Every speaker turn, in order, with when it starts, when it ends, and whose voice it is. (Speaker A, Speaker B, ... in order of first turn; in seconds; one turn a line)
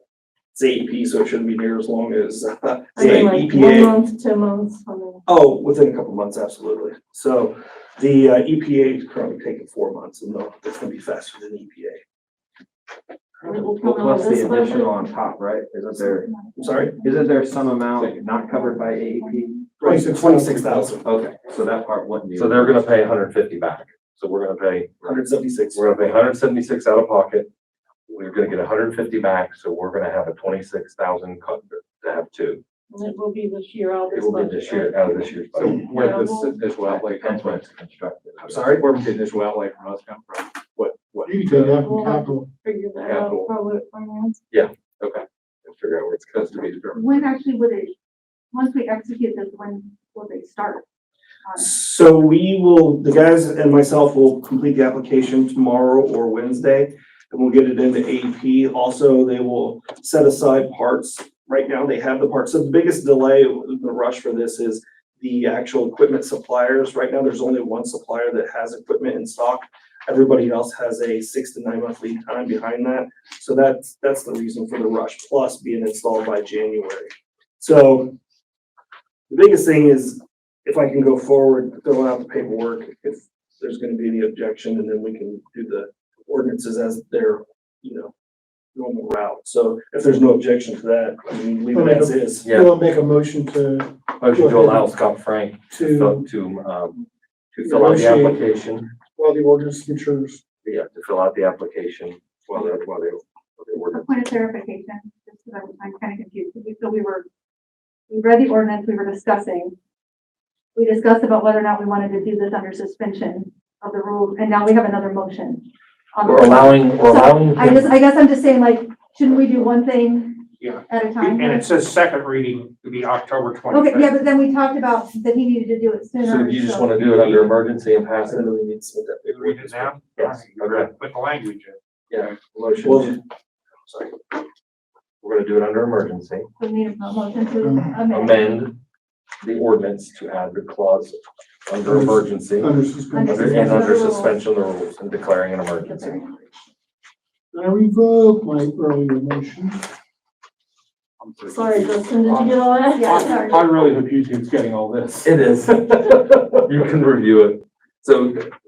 Speaker A: 0.5-3.9
Speaker B: 3.0-5.2
Speaker A: 5.3-12.0
Speaker C: 13.4-13.7
Speaker B: 13.4-14.9
Speaker D: 13.8-16.3
Speaker E: 16.0-17.2
Speaker A: 16.6-17.0
Speaker D: 17.0-19.7
Speaker E: 18.4-19.6
Speaker A: 19.8-21.1
Speaker C: 19.8-21.0
Speaker D: 21.0-22.9
Speaker F: 22.3-25.2
Speaker A: 25.0-25.9
Speaker F: 25.7-27.5
Speaker F: 28.1-32.6
Speaker B: 32.9-35.1
Speaker F: 34.1-35.8
Speaker G: 35.5-37.7
Speaker B: 35.9-36.6
Speaker D: 36.9-38.8
Speaker G: 38.3-41.8
Speaker C: 41.2-42.5
Speaker B: 41.8-44.4
Speaker G: 43.0-43.5
Speaker F: 45.7-46.7
Speaker G: 46.3-47.4
Speaker E: 47.0-47.9
Speaker E: 48.5-50.9
Speaker E: 51.4-51.8
Speaker A: 51.6-78.2
Speaker A: 79.3-88.1
Speaker A: 88.7-92.5
Speaker C: 91.7-95.0
Speaker F: 92.4-92.7
Speaker F: 94.2-97.0
Speaker C: 95.7-96.3
Speaker F: 97.5-98.9
Speaker C: 97.6-98.4
Speaker C: 99.2-100.4
Speaker F: 100.6-104.2
Speaker E: 103.9-107.3
Speaker E: 108.1-109.8
Speaker E: 110.8-121.7
Speaker F: 116.2-117.9
Speaker H: 120.6-124.1
Speaker E: 123.7-127.0
Speaker F: 126.2-128.5
Speaker A: 128.3-129.9
Speaker H: 129.3-132.4
Speaker F: 130.1-130.9
Speaker F: 132.1-133.0
Speaker A: 132.8-133.2
Speaker A: 133.9-134.2
Speaker F: 135.2-136.5
Speaker E: 136.6-138.5
Speaker C: 137.6-137.9
Speaker F: 138.1-138.8
Speaker F: 139.4-142.8
Speaker C: 141.9-143.9
Speaker E: 143.1-144.4
Speaker F: 143.3-146.2
Speaker E: 145.8-146.3
Speaker C: 147.5-149.9
Speaker G: 151.2-152.1
Speaker B: 151.5-153.4
Speaker H: 152.3-155.3
Speaker E: 152.9-153.8
Speaker G: 154.2-155.1
Speaker F: 155.2-158.5